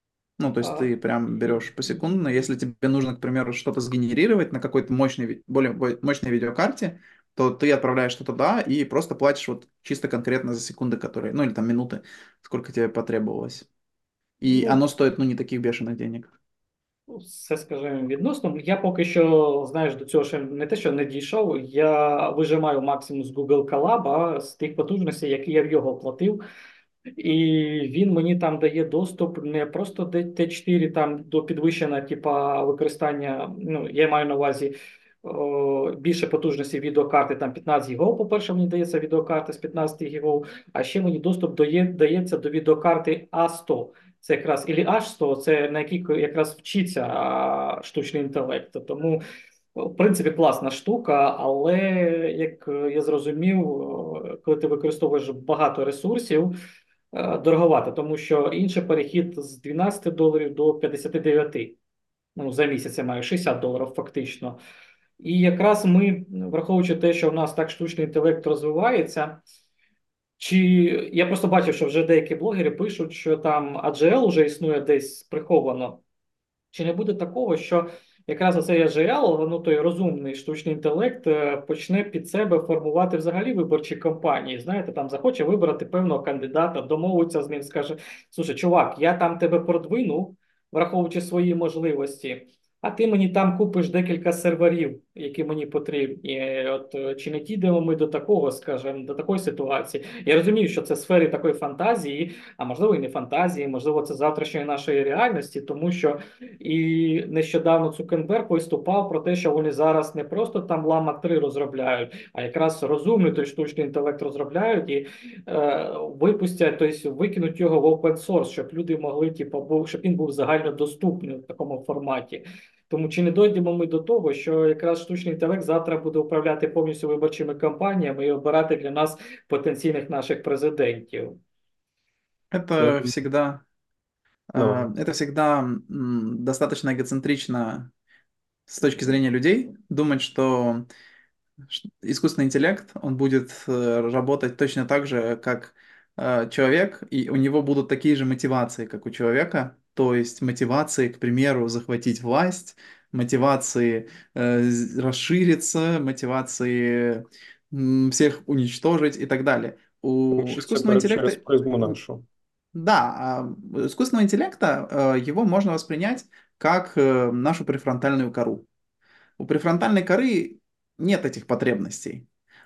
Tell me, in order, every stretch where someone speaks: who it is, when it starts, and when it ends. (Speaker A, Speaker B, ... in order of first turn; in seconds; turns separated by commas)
Speaker A: 0.4-13.7, Speaker B: 0.6-1.7, Speaker A: 14.4-16.3, Speaker B: 14.5-14.8, Speaker B: 17.1-26.4, Speaker B: 27.2-34.7, Speaker B: 35.2-49.2, Speaker B: 49.8-56.5, Speaker B: 57.1-61.8, Speaker B: 62.4-64.6, Speaker B: 65.2-69.4, Speaker B: 70.4-76.0, Speaker B: 76.7-131.4, Speaker A: 132.5-133.6, Speaker C: 132.8-133.1, Speaker A: 134.5-137.9, Speaker C: 134.6-134.9, Speaker A: 138.7-140.9, Speaker A: 141.7-161.4, Speaker C: 160.3-162.2, Speaker A: 162.8-168.7, Speaker A: 169.4-172.3